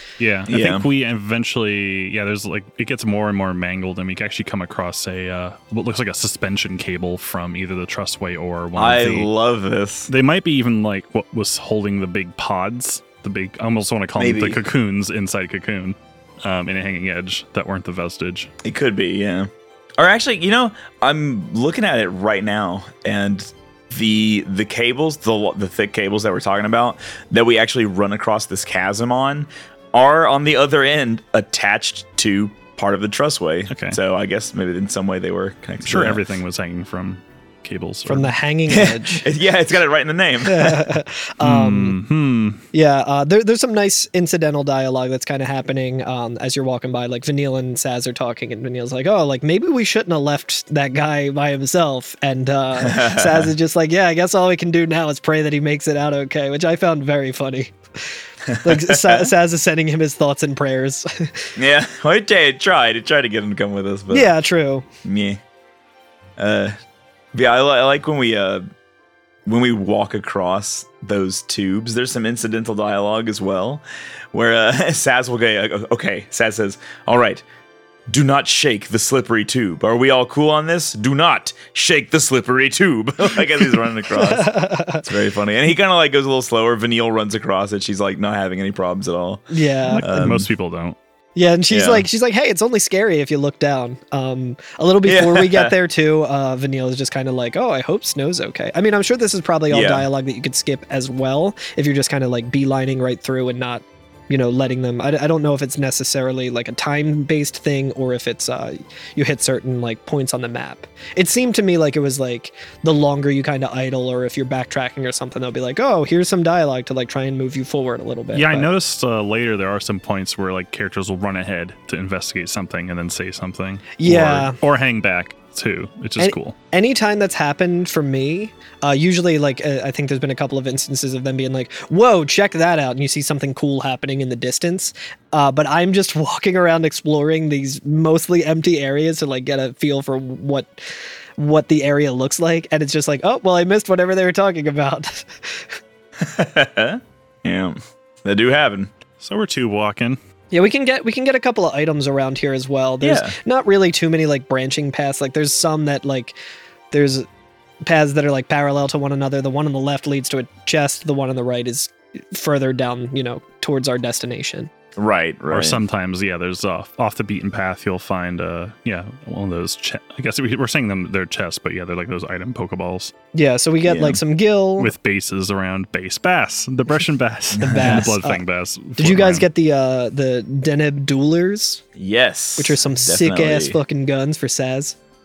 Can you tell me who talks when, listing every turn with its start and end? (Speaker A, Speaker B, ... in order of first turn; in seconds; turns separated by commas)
Speaker A: 0.2-9.3, Speaker B: 0.5-0.9, Speaker B: 8.8-10.1, Speaker A: 10.1-18.5, Speaker B: 14.2-14.6, Speaker B: 18.6-36.2, Speaker A: 33.7-34.0, Speaker A: 35.9-38.3, Speaker C: 38.0-39.3, Speaker B: 38.7-40.9, Speaker C: 40.4-42.0, Speaker A: 41.4-42.6, Speaker C: 42.7-61.5, Speaker B: 52.8-53.5, Speaker B: 58.5-59.3, Speaker B: 61.5-64.3, Speaker C: 64.1-64.9, Speaker B: 65.0-65.4, Speaker B: 66.4-66.7, Speaker B: 67.3-68.6, Speaker B: 69.5-77.4, Speaker B: 78.1-90.5, Speaker C: 84.1-85.0, Speaker C: 89.5-90.3, Speaker A: 89.9-91.0, Speaker C: 91.4-118.7, Speaker B: 91.7-92.0, Speaker B: 95.0-95.7, Speaker B: 99.7-100.1, Speaker A: 118.3-126.5, Speaker C: 124.0-124.6, Speaker C: 126.2-140.8, Speaker C: 141.4-145.8, Speaker B: 146.2-148.9, Speaker A: 149.2-150.2, Speaker C: 150.5-156.4, Speaker B: 153.0-153.3, Speaker C: 156.9-157.3, Speaker C: 157.8-164.7, Speaker B: 164.9-165.8, Speaker A: 165.5-173.1, Speaker C: 173.3-174.9, Speaker B: 173.8-174.2, Speaker A: 174.8-179.4, Speaker B: 177.6-178.1, Speaker C: 177.6-178.4, Speaker C: 179.0-181.8, Speaker B: 181.9-183.8, Speaker C: 182.6-184.9